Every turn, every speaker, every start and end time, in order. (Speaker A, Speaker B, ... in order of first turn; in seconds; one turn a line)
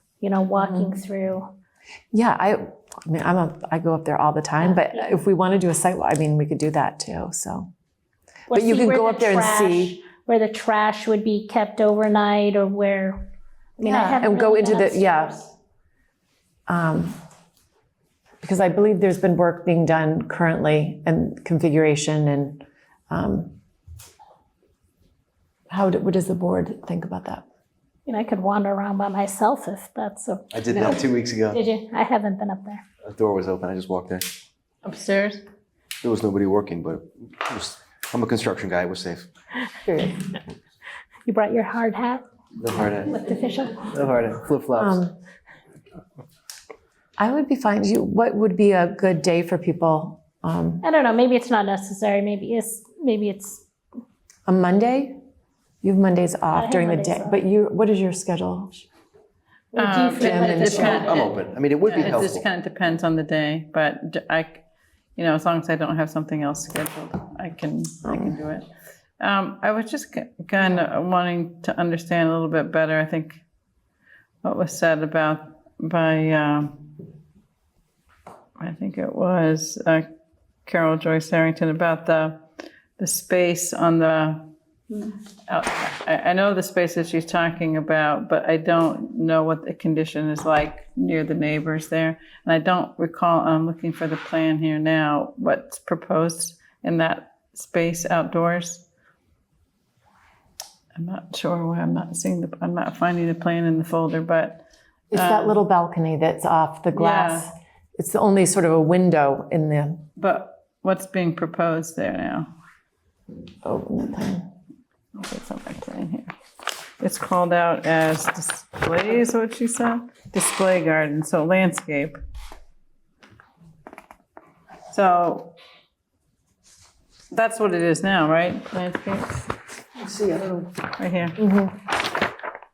Speaker A: 0.2-1.5
Speaker B: 0.6-0.9
Speaker B: 2.1-7.7
Speaker A: 4.7-5.0
Speaker B: 8.5-9.9
Speaker A: 8.5-13.3
Speaker A: 13.8-15.5
Speaker B: 13.8-15.3
Speaker B: 16.7-17.1
Speaker B: 18.4-23.5
Speaker B: 25.7-27.4
Speaker A: 28.1-32.8
Speaker C: 30.5-31.6
Speaker C: 33.0-34.3
Speaker D: 34.8-35.4
Speaker C: 36.0-39.3
Speaker B: 39.9-40.2
Speaker A: 41.2-42.2
Speaker C: 42.6-43.2
Speaker A: 43.1-43.9
Speaker C: 43.9-45.0
Speaker B: 44.8-45.1
Speaker B: 47.2-50.8
Speaker A: 50.8-53.6
Speaker B: 54.5-55.1
Speaker B: 55.8-58.8
Speaker A: 56.5-57.4
Speaker A: 59.7-61.2
Speaker D: 59.7-64.6
Speaker B: 60.2-61.0
Speaker C: 60.7-62.4
Speaker D: 65.2-68.7
Speaker B: 68.0-68.3
Speaker D: 69.2-73.4
Speaker D: 74.4-76.8
Speaker D: 78.6-80.1
Speaker D: 80.7-82.4
Speaker D: 83.0-84.5
Speaker D: 85.5-98.8
Speaker D: 101.0-105.6
Speaker B: 105.1-110.0
Speaker D: 106.9-107.5
Speaker D: 110.2-112.5
Speaker B: 113.6-114.4
Speaker D: 115.1-116.3
Speaker D: 117.0-122.2
Speaker D: 124.9-125.5
Speaker D: 127.3-129.5
Speaker D: 130.6-131.4
Speaker B: 131.4-131.7